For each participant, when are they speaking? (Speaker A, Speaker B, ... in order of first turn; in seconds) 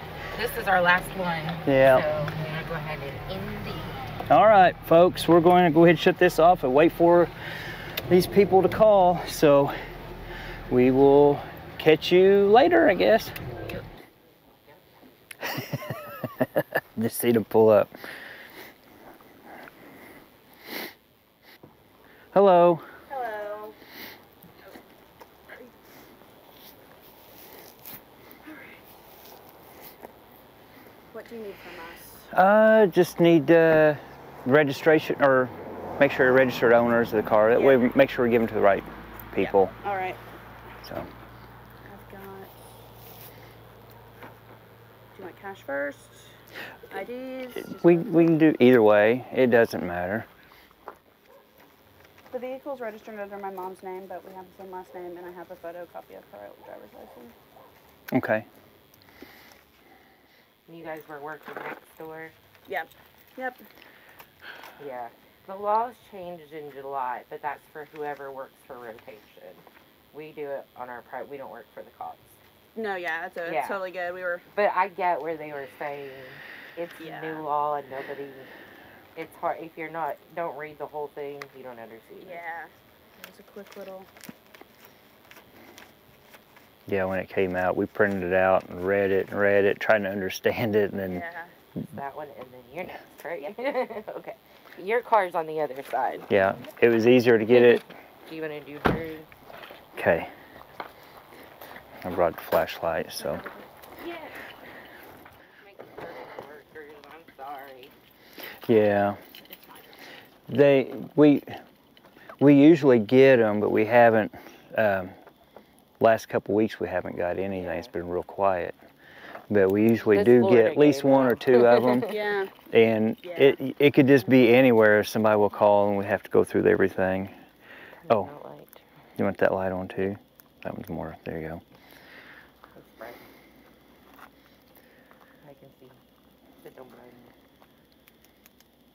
Speaker A: 0.3-4.0, 13.6-13.8, 60.7-62.4, 64.8-72.4, 73.4-73.8, 74.5-78.5, 79.2-82.4, 91.9-96.3, 97.5-99.3, 104.0-104.4, 105.6-107.9, 117.5-117.9, 120.1-122.2, 128.0-128.8, 132.8-133.2, 135.4-136.0, 136.6-137.3
Speaker B: 1.6-2.0, 4.3-7.3, 8.1-9.8, 10.7-13.3, 16.4-17.9, 22.3-22.9, 32.3-39.7, 47.7-50.3, 58.1-58.5, 86.9-91.2, 96.3-97.8, 100.0-100.3, 102.0-103.4, 108.7-109.2, 110.5-111.6, 112.4-115.1, 116.0-118.8, 119.5-122.1, 122.7-127.3, 129.2-131.6
Speaker C: 23.1-23.8, 28.4-28.8, 31.1-32.3, 37.5-37.8, 39.4-40.2, 41.9-42.5, 45.1-46.4, 46.9-48.4, 52.3-57.3, 62.7-63.6, 72.8-74.4, 77.0-77.4, 82.2-84.1, 91.0-91.5, 103.2-103.7, 122.0-122.5, 123.2-123.6